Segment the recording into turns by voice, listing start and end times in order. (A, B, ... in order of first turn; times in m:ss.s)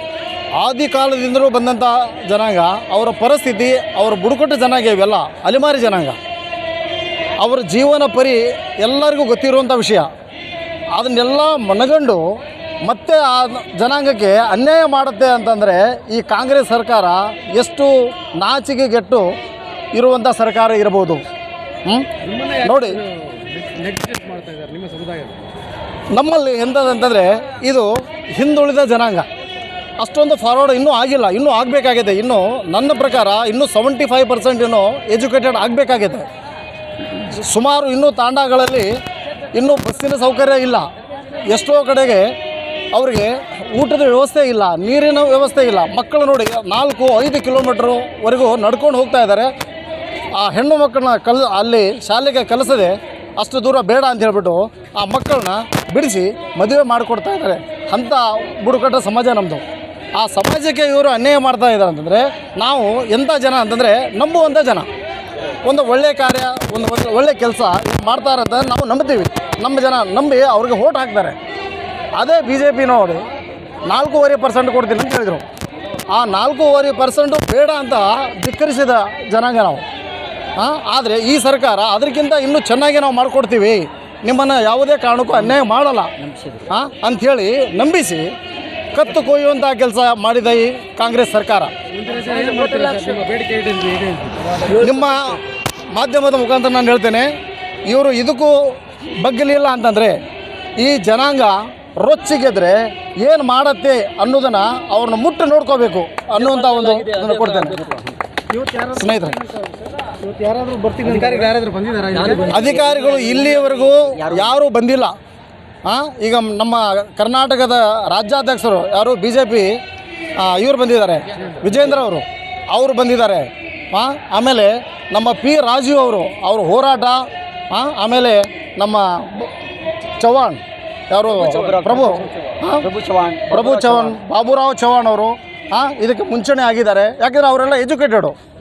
0:00.5-0:06.2 A
0:07.4-0:10.1 A
0:10.9-0:12.2 A
0:12.8-0:19.4 A
0:19.9-0:21.2 A
0:21.8-0:23.0 A
0:22.3-0:22.6 B
0:23.2-0:25.4 B
0:26.1-0:29.2 A
0:30.0-0:36.3 A
0:37.2-0:38.9 A
0:39.5-0:40.9 A
0:41.5-0:42.3 A
0:42.9-0:49.5 A
0:50.3-0:59.6 A
1:00.2-1:04.9 A
1:05.6-1:11.4 A
1:12.1-1:13.2 A
1:13.9-1:15.4 A
1:16.1-1:19.8 A
1:20.6-1:26.1 A
1:26.2-1:26.7 C
1:26.7-1:28.3 A
1:28.9-1:31.7 A
1:32.0-1:34.6 B
1:34.7-1:35.4 A
1:35.9-1:37.3 A
1:37.9-1:40.2 A
1:40.8-1:47.9 A
1:48.7-1:49.4 A
1:50.2-1:52.5 B
1:52.4-1:55.1 A
1:52.6-1:54.5 C
1:55.8-1:59.8 A
2:00.4-2:09.5 A
2:10.2-2:12.8 A
2:11.4-2:14.2 C
2:13.5-2:18.4 A